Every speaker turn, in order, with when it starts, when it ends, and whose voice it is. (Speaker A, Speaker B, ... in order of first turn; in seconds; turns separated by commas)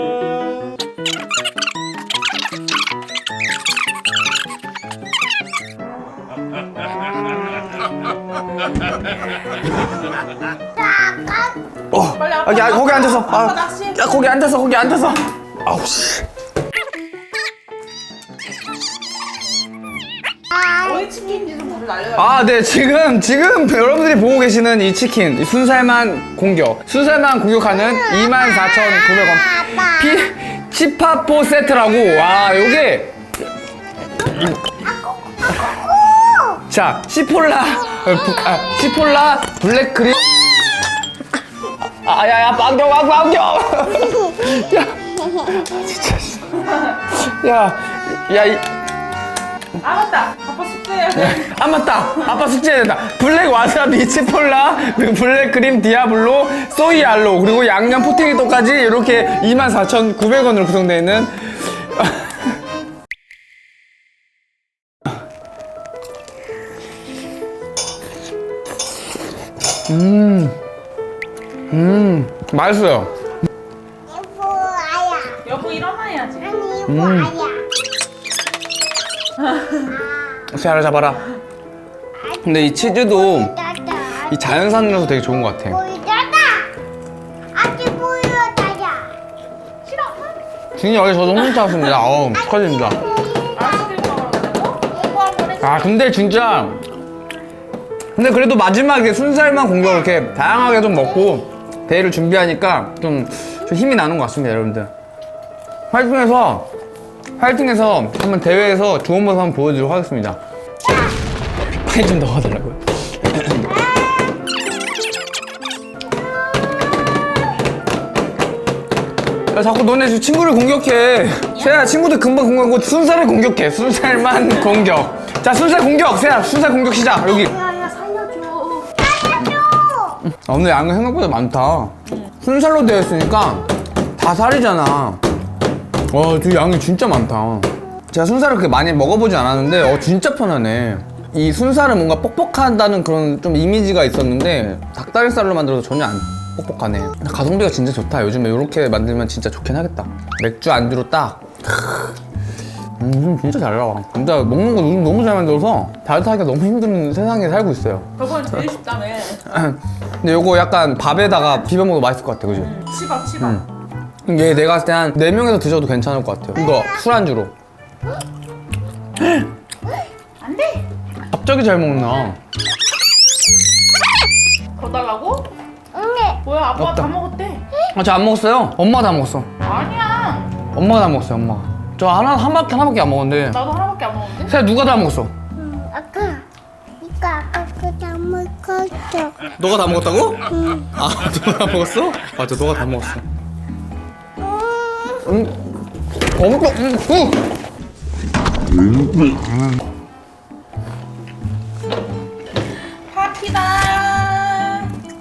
Speaker A: 10.8-11.6, Speaker B: 11.9-16.2, Speaker C: 12.0-14.2, Speaker C: 20.8-22.5, Speaker B: 22.2-33.2, Speaker B: 36.5-40.2, Speaker B: 42.0-48.7, Speaker C: 49.8-51.5, Speaker B: 51.1-62.5, Speaker B: 69.9-70.5, Speaker B: 71.7-73.1, Speaker A: 74.1-75.4, Speaker C: 75.4-76.5, Speaker A: 76.4-77.6, Speaker B: 76.9-77.4, Speaker C: 79.4-79.9, Speaker B: 80.5-81.2, Speaker A: 82.2-84.4, Speaker B: 82.4-83.5, Speaker B: 84.2-85.8, Speaker A: 85.5-86.7, Speaker A: 87.5-89.2, Speaker C: 89.8-90.3, Speaker B: 90.8-93.0, Speaker C: 91.5-91.9, Speaker A: 92.5-93.9, Speaker C: 93.5-96.0, Speaker A: 95.0-95.5, Speaker B: 95.6-96.8, Speaker B: 98.2-104.9, Speaker B: 105.9-106.7, Speaker B: 107.4-110.4, Speaker B: 111.8-113.7, Speaker B: 119.5-127.5, Speaker C: 127.4-128.9, Speaker A: 129.1-130.2, Speaker B: 130.3-135.2, Speaker B: 136.1-152.1, Speaker B: 153.0-158.1, Speaker C: 158.2-159.4, Speaker B: 159.4-162.8, Speaker C: 162.6-163.6, Speaker B: 164.3-167.5, Speaker C: 170.4-170.9, Speaker B: 171.3-172.4, Speaker C: 174.8-175.5, Speaker A: 175.9-176.4, Speaker C: 176.4-177.6, Speaker B: 176.8-177.1, Speaker B: 177.9-179.5, Speaker C: 179.6-180.6, Speaker B: 180.7-183.6, Speaker C: 183.5-184.5, Speaker B: 184.4-185.3, Speaker A: 185.6-186.4, Speaker A: 187.0-189.4, Speaker B: 189.5-193.2, Speaker A: 194.4-195.2, Speaker B: 195.2-197.4, Speaker B: 199.1-199.3, Speaker C: 203.1-204.9